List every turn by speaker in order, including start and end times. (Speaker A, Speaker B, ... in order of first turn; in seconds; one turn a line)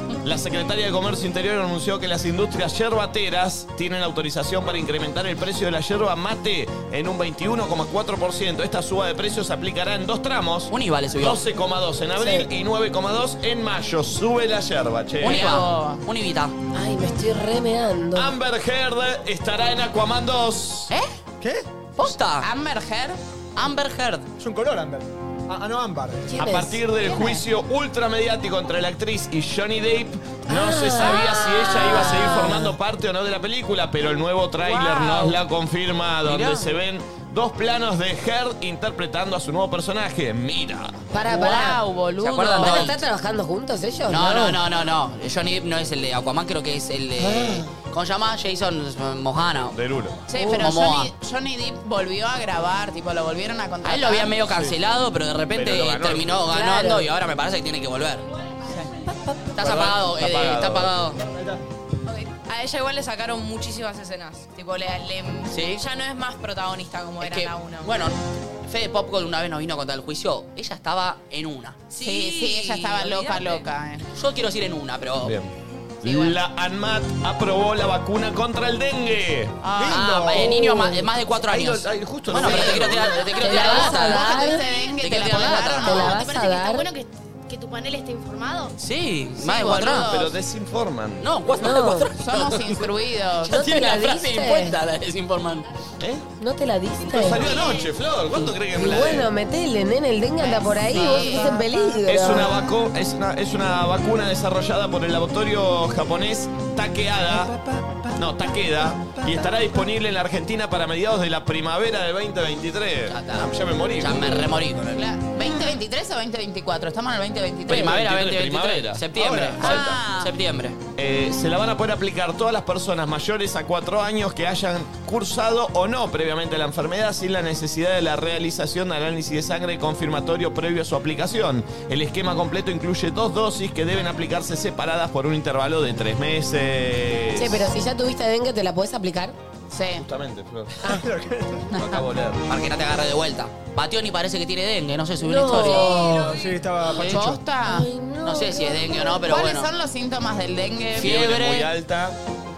Speaker A: 0.2-15.5
Speaker B: 10.7-11.4
Speaker C: 12.2-12.5
Speaker B: 15.2-16.5
Speaker D: 15.2-16.0
Speaker C: 16.7-18.3
Speaker A: 18.1-20.9
Speaker E: 21.4-21.7
Speaker B: 22.0-22.5
Speaker D: 22.4-23.2
Speaker B: 23.6-24.3
Speaker E: 24.4-26.4
Speaker C: 26.2-26.8
Speaker A: 26.3-41.0
Speaker C: 30.5-32.7
Speaker D: 34.7-35.4
Speaker B: 36.2-36.7
Speaker C: 41.1-41.8
Speaker D: 41.2-43.0
Speaker B: 42.2-43.0
Speaker C: 42.5-44.6
Speaker B: 44.1-49.7
Speaker C: 47.2-47.7
Speaker A: 49.7-50.2
Speaker D: 50.3-54.3
Speaker B: 50.4-51.1
Speaker B: 53.8-58.2
Speaker A: 54.5-54.7
Speaker A: 55.5-56.5
Speaker C: 56.5-57.1
Speaker B: 59.5-61.2
Speaker A: 59.6-61.0
Speaker E: 61.2-61.6
Speaker F: 62.0-68.0
Speaker B: 65.5-65.8
Speaker B: 67.2-71.8
Speaker F: 71.9-73.7
Speaker D: 72.0-74.1
Speaker B: 74.1-75.3
Speaker A: 75.2-79.6
Speaker D: 79.6-80.0
Speaker E: 79.7-80.6
Speaker B: 79.8-86.1
Speaker C: 80.4-81.1
Speaker A: 81.4-83.3
Speaker D: 82.3-86.2
Speaker C: 83.4-84.6
Speaker G: 84.4-88.8
Speaker C: 85.8-86.9
Speaker B: 88.8-90.1
Speaker D: 89.4-90.4
Speaker A: 89.7-91.3
Speaker B: 91.2-92.9
Speaker C: 91.6-92.1
Speaker D: 92.2-93.6
Speaker C: 93.4-94.8
Speaker B: 93.4-95.7
Speaker A: 96.0-96.2
Speaker C: 96.4-97.5
Speaker A: 97.1-99.3
Speaker C: 98.7-102.5
Speaker D: 100.6-101.6
Speaker E: 101.1-101.7
Speaker A: 102.0-107.5
Speaker E: 107.2-108.2
Speaker A: 108.2-114.5
Speaker E: 109.0-109.6
Speaker B: 113.1-115.0
Speaker D: 114.9-117.9
Speaker A: 117.7-120.0
Speaker B: 117.7-120.8
Speaker E: 119.2-119.6
Speaker D: 119.6-120.3
Speaker A: 121.0-137.7
Speaker C: 137.3-139.3
Speaker D: 139.7-140.1
Speaker A: 139.9-141.0
Speaker E: 140.8-141.7
Speaker A: 141.7-142.4
Speaker B: 142.5-146.1
Speaker C: 145.2-146.3
Speaker E: 145.7-147.4
Speaker B: 146.8-147.3
Speaker D: 146.9-147.9
Speaker C: 147.6-149.3
Speaker B: 148.2-149.7
Speaker D: 149.2-151.6
Speaker B: 150.9-151.7
Speaker A: 150.9-152.2